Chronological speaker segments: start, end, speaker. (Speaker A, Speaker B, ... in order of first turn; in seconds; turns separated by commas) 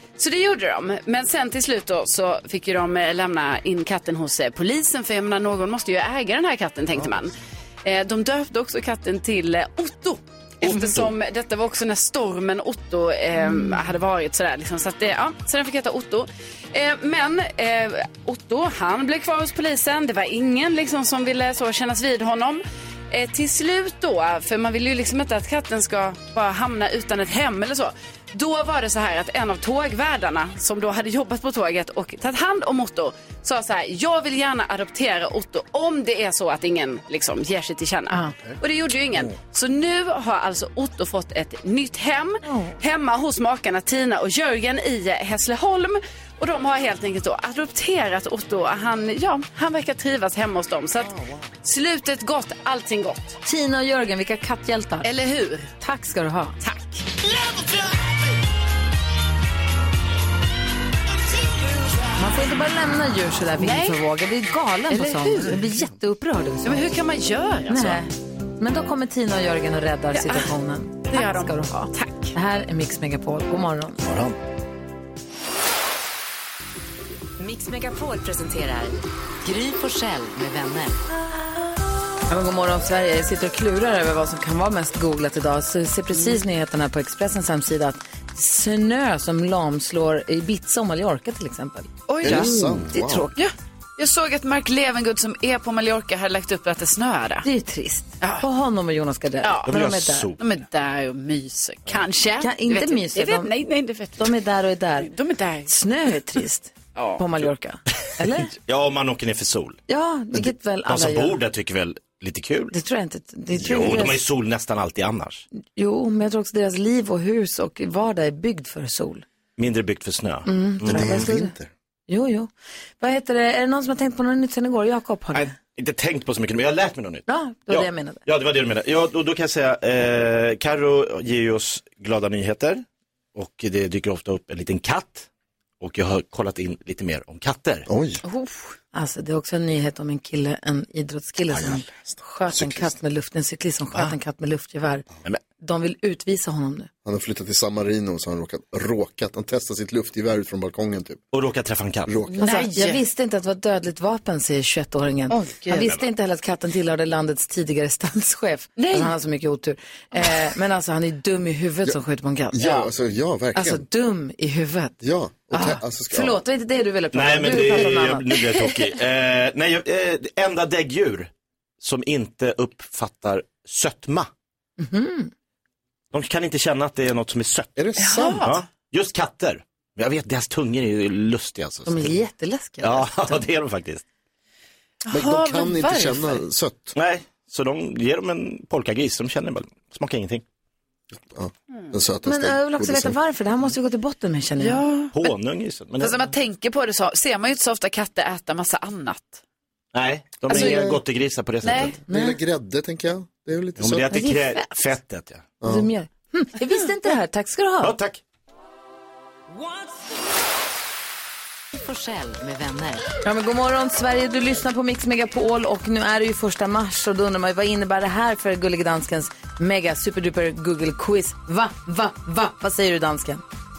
Speaker A: 0.2-53.4, Speaker B: 42.4-42.8, Speaker B: 53.4-55.1, Speaker A: 55.0-55.7, Speaker B: 55.8-56.6, Speaker A: 56.6-57.0, Speaker B: 62.2-66.8, Speaker A: 63.6-64.0, Speaker A: 64.9-65.6, Speaker A: 66.6-68.0, Speaker B: 67.7-74.0, Speaker A: 70.1-70.5, Speaker A: 71.1-72.3, Speaker C: 74.0-74.4, Speaker D: 77.4-81.0, Speaker B: 82.3-93.4, Speaker A: 92.1-92.7, Speaker E: 92.2-93.2, Speaker A: 93.3-97.5, Speaker B: 97.4-100.3, Speaker A: 99.4-99.7, Speaker C: 99.7-100.4, Speaker A: 100.4-104.3, Speaker B: 102.4-103.5, Speaker B: 104.2-105.1, Speaker A: 105.0-105.7, Speaker B: 105.7-108.5, Speaker A: 107.0-107.2, Speaker C: 108.5-109.8, Speaker B: 109.9-111.4, Speaker C: 110.3-112.7, Speaker B: 112.7-114.2, Speaker C: 113.5-115.4, Speaker B: 115.8-119.2, Speaker C: 119.6-121.2, Speaker B: 120.5-121.5, Speaker E: 120.8-121.7, Speaker B: 122.1-125.5, Speaker C: 125.3-132.8, Speaker B: 127.3-128.2, Speaker C: 133.3-135.3, Speaker C: 135.8-137.9, Speaker E: 137.9-138.2, Speaker A: 138.2-138.8, Speaker B: 138.9-145.0, Speaker E: 141.5-142.9, Speaker B: 145.6-146.9, Speaker E: 147.0-151.2, Speaker C: 151.3-152.1, Speaker E: 152.1-152.5, Speaker A: 152.4-153.0, Speaker B: 152.4-162.8, Speaker A: 155.3-155.8, Speaker A: 158.8-159.1, Speaker E: 162.5-163.8, Speaker B: 163.5-164.9, Speaker E: 165.0-166.4, Speaker B: 165.5-168.3, Speaker C: 167.1-171.3, Speaker C: 171.8-174.3, Speaker B: 174.8-175.3, Speaker C: 176.1-177.8, Speaker E: 177.8-178.5, Speaker A: 178.0-178.6, Speaker C: 178.4-182.2, Speaker B: 181.8-183.4, Speaker C: 182.8-184.0, Speaker A: 185.0-186.4, Speaker E: 185.1-186.9, Speaker C: 186.9-190.4, Speaker E: 191.2-193.2, Speaker B: 192.2-194.8, Speaker A: 194.6-195.3, Speaker C: 195.1-196.2, Speaker A: 196.0-199.4, Speaker C: 199.9-201.9, Speaker A: 200.5-201.0, Speaker E: 200.5-201.0, Speaker A: 201.6-201.9, Speaker B: 202.1-202.4, Speaker E: 202.1-204.3, Speaker C: 203.8-205.5, Speaker B: 204.2-204.6, Speaker E: 205.6-205.9, Speaker B: 205.6-207.9, Speaker C: 207.8-208.2, Speaker D: 211.7-213.1, Speaker B: 213.2-223.4